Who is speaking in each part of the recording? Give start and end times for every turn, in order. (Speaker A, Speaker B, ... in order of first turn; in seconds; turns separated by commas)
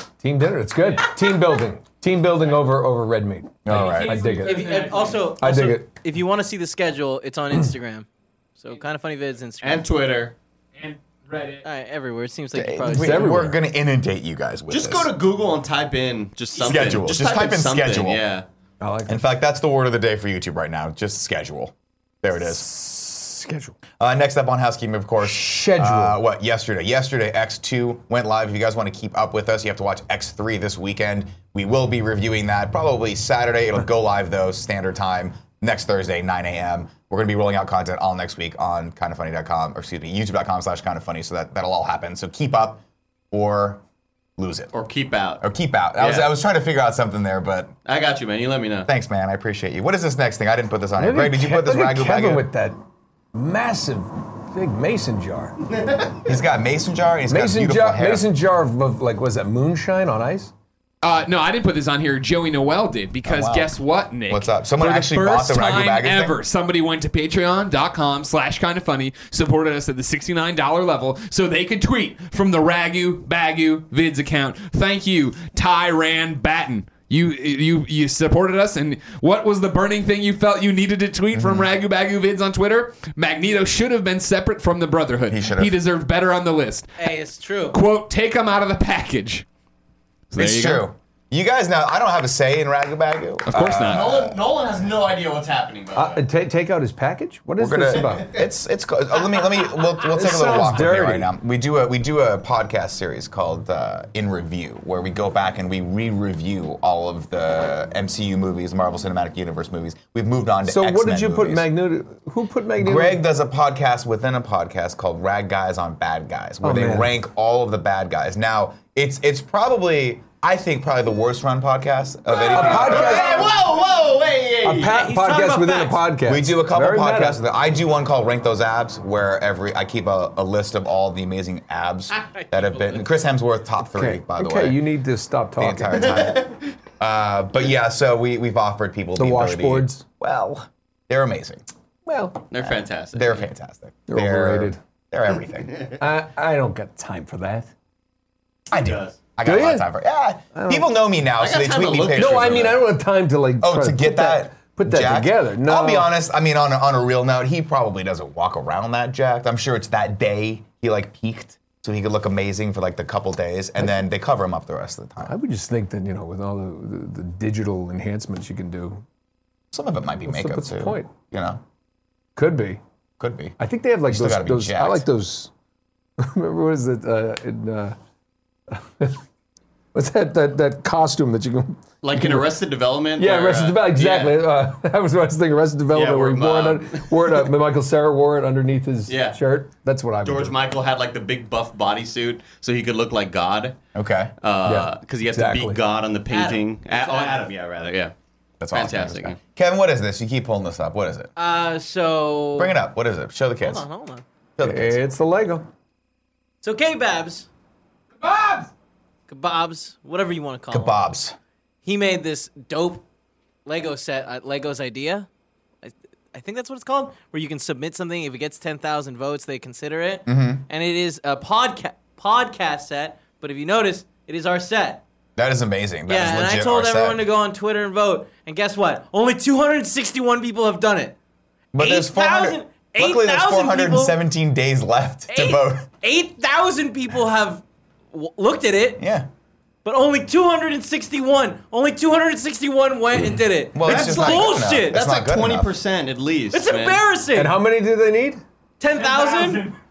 Speaker A: 0.2-4.7, Speaker B: 0.8-1.2, Speaker C: 3.6-4.2, Speaker B: 3.7-5.3, Speaker D: 4.4-8.1, Speaker A: 5.4-5.9, Speaker D: 8.6-9.9, Speaker E: 9.6-10.3, Speaker B: 10.8-11.7, Speaker D: 11.6-13.4, Speaker C: 12.5-15.1, Speaker A: 12.9-13.6, Speaker E: 14.7-18.5, Speaker C: 16.6-18.2, Speaker A: 18.8-19.2, Speaker C: 19.1-22.7, Speaker A: 22.4-23.8, Speaker C: 24.0-43.8, Speaker A: 25.2-26.2, Speaker C: 44.4-44.7, Speaker E: 44.7-45.4, Speaker C: 45.4-47.8, Speaker E: 46.0-46.3, Speaker E: 47.9-48.9, Speaker C: 48.9-52.5, Speaker A: 51.0-52.8, Speaker A: 53.4-55.6, Speaker C: 56.3-58.3, Speaker A: 57.3-60.5, Speaker B: 61.0-86.9, Speaker C: 63.2-63.8, Speaker C: 64.3-66.4, Speaker C: 81.3-81.7, Speaker C: 85.3-85.8, Speaker D: 87.0-87.8, Speaker B: 87.7-89.5, Speaker B: 90.3-90.9, Speaker C: 90.3-94.5, Speaker B: 93.5-94.1, Speaker E: 93.8-96.2, Speaker A: 95.9-98.4, Speaker C: 97.6-111.7, Speaker A: 100.1-101.3, Speaker A: 110.7-113.2, Speaker C: 112.8-123.6, Speaker A: 116.6-117.1, Speaker E: 122.3-125.0, Speaker A: 122.5-123.5, Speaker A: 124.6-127.4, Speaker D: 124.9-126.0, Speaker C: 126.2-134.9, Speaker D: 132.1-133.1, Speaker A: 133.9-136.1, Speaker C: 135.6-141.6, Speaker E: 136.1-136.6, Speaker A: 139.2-140.0, Speaker A: 142.1-142.5, Speaker E: 142.5-143.4, Speaker C: 143.1-145.8, Speaker A: 144.1-144.8, Speaker A: 146.0-147.7, Speaker C: 148.7-152.8, Speaker E: 148.7-149.2, Speaker A: 149.4-149.9, Speaker A: 150.5-150.9, Speaker E: 151.4-152.8, Speaker A: 152.1-156.1, Speaker C: 153.6-165.3, Speaker A: 165.2-169.0, Speaker C: 169.7-171.6, Speaker A: 170.2-171.1, Speaker A: 172.4-172.8, Speaker C: 173.2-175.1, Speaker A: 173.6-175.5, Speaker A: 176.2-178.0, Speaker A: 178.7-179.2, Speaker A: 179.9-182.5, Speaker E: 182.0-184.4, Speaker A: 183.2-190.6, Speaker E: 185.9-187.4, Speaker E: 189.1-189.4, Speaker E: 190.2-193.8, Speaker C: 193.9-194.3, Speaker E: 194.4-198.1, Speaker A: 194.7-195.8, Speaker D: 196.3-197.5, Speaker C: 198.6-201.3, Speaker E: 198.7-199.4, Speaker D: 201.4-202.7, Speaker C: 202.6-203.8, Speaker D: 203.6-204.2, Speaker C: 204.6-205.0, Speaker A: 204.6-205.7, Speaker D: 206.6-207.5, Speaker B: 208.2-208.7, Speaker D: 209.3-211.0, Speaker C: 210.7-211.4, Speaker D: 211.8-213.0, Speaker D: 213.7-215.3, Speaker D: 215.8-225.0, Speaker C: 220.3-220.6, Speaker C: 225.4-227.2, Speaker D: 226.1-231.2, Speaker C: 231.7-235.9, Speaker D: 231.8-234.2, Speaker D: 235.3-239.0, Speaker C: 239.0-239.3, Speaker D: 239.8-245.0, Speaker C: 243.7-245.8, Speaker E: 243.8-247.0, Speaker D: 246.5-247.5, Speaker A: 247.3-248.4, Speaker D: 248.8-249.7, Speaker B: 248.9-249.7